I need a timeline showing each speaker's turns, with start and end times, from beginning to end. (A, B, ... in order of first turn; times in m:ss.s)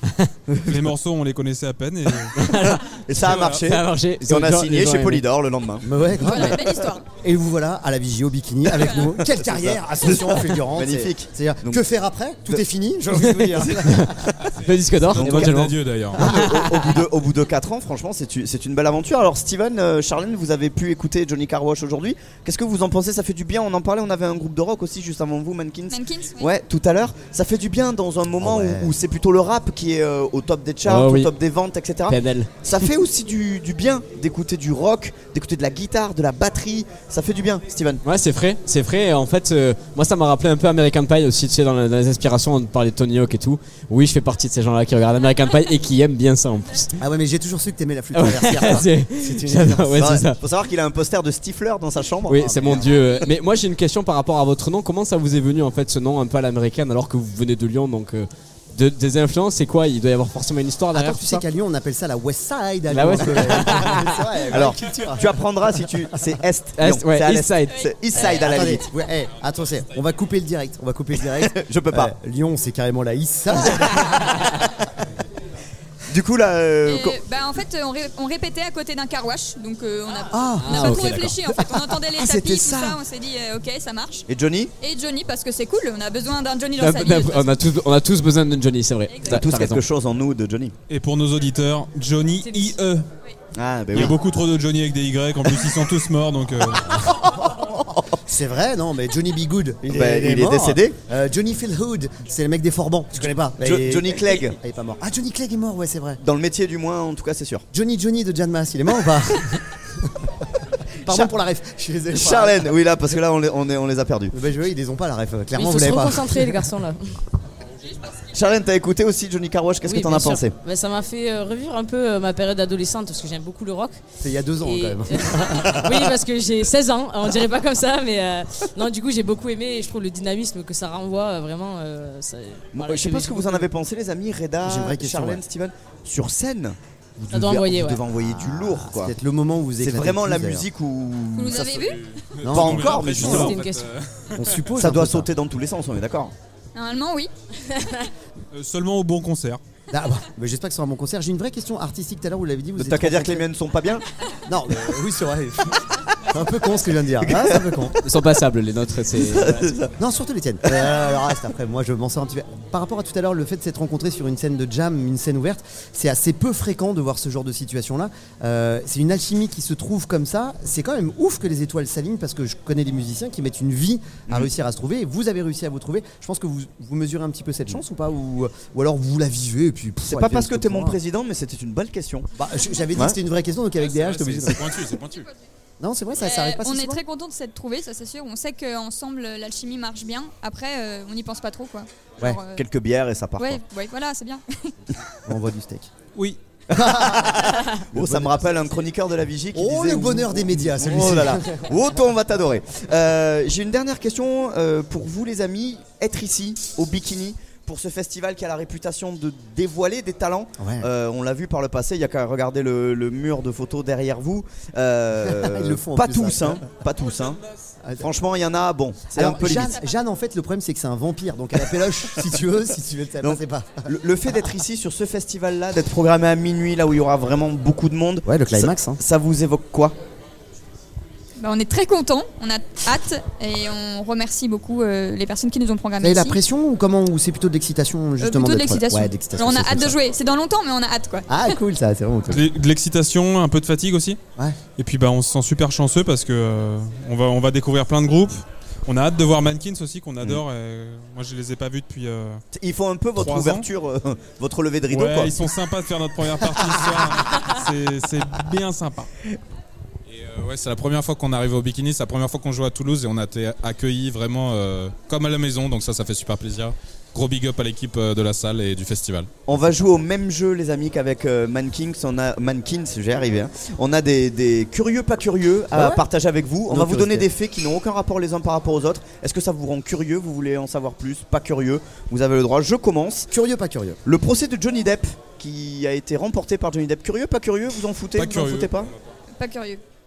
0:00.5-0:00.8 A
0:00.6-0:02.4 B
0:02.4-0:03.0 C
0:02.9-0:05.9 A
0:03.2-0:03.6 B
0:03.6-0:05.2 C
0:05.8-0:06.6 D
0:06.2-0:07.1 E
0:07.2-0:14.4 D
0:08.8-0:09.1 E
0:09.2-0:11.8 A
0:13.2-0:16.8 C
0:15.1-0:16.2 B
0:15.2-0:15.6 A
0:16.2-0:16.6 D
0:16.2-0:38.0 A
0:25.9-0:26.5 E
0:28.4-0:28.9 D
0:30.8-0:31.3 C
0:32.1-0:32.5 C
0:38.0-0:46.9 C
0:47.0-0:50.0 D
0:48.1-0:50.4 C
0:50.0-0:52.8 A
0:52.3-1:01.4 C
0:52.3-0:53.0 D
1:00.9-1:06.2 D
1:02.9-1:04.3 C
1:04.5-1:08.9 A
1:06.8-1:08.5 C
1:07.7-1:08.6 E
1:08.3-1:14.9 D
1:11.4-1:12.1 A
1:16.1-1:17.2 A
1:16.9-1:24.3 E
1:20.3-1:20.9 D
1:20.6-1:21.3 C
1:21.5-1:23.0 D
1:24.3-1:24.7 A
1:24.8-1:27.6 E
1:26.8-1:29.8 C
1:29.1-1:29.4 E
1:29.2-1:30.7 A
1:30.9-1:33.1 B
1:32.4-1:32.8 F
1:33.6-1:34.2 A
1:33.9-1:37.1 B
1:37.3-1:46.2 D
1:39.8-1:41.0 A
1:43.6-1:44.6 A
1:46.2-1:47.6 A
1:47.7-1:52.7 D
1:51.1-1:51.3 A
1:52.1-1:54.4 A
1:54.3-1:56.6 D
1:55.6-1:57.2 F
1:58.3-2:00.6 A
1:59.8-2:04.0 F
2:04.2-2:05.9 D
2:04.6-2:13.7 F
2:12.7-2:19.1 A
2:14.6-2:15.4 D
2:17.3-2:18.0 F
2:18.2-2:20.7 D
2:19.8-2:21.7 A
2:21.4-2:22.1 E
2:21.7-2:24.7 B
2:22.4-2:23.6 D
2:22.4-2:23.6 A
2:23.2-2:23.9 F
2:24.4-2:25.3 D
2:24.8-2:26.3 A
2:26.7-2:27.3 E
2:27.7-2:28.1 F
2:28.5-2:29.6 B
2:29.9-2:33.5 D
2:32.8-2:34.0 A
2:34.5-2:38.0 D
2:37.3-2:37.6 A
2:38.0-2:39.7 C
2:39.2-2:40.0 A
2:40.0-3:01.0 D
3:00.0-3:02.3 A
3:02.4-3:05.0 D
3:03.8-3:05.3 B
3:05.8-3:07.0 D
3:06.2-3:12.7 E
3:12.6-3:13.6 A
3:13.4-3:14.7 E
3:15.3-3:15.9 D
3:16.7-3:37.4 A
3:16.8-3:18.4 D
3:19.5-3:21.7 D
3:30.6-3:30.9 D
3:35.2-3:36.7 D
3:37.8-3:38.1 D
3:38.0-3:39.7 A
3:39.1-3:44.5 D
3:39.5-3:39.9 E
3:43.2-3:50.0 A
3:48.3-3:49.0 D
3:51.4-3:56.4 E
3:56.0-4:00.0 D
3:58.2-4:01.6 E
4:01.3-4:02.4 D
4:02.3-4:04.2 B
4:04.8-4:12.4 B
4:12.5-4:15.3 A
4:13.2-4:13.7 B
4:14.9-4:19.1 B
4:20.1-4:24.6 G
4:20.1-4:20.4 B
4:22.4-4:29.0 B
4:25.7-4:26.6 G
4:27.6-4:29.3 G
4:29.5-4:43.3 A
4:35.7-4:36.0 D
4:36.7-4:37.3 D
4:43.3-4:44.0 D
4:44.0-4:48.9 A
4:48.2-4:48.8 B
4:49.4-4:49.8 E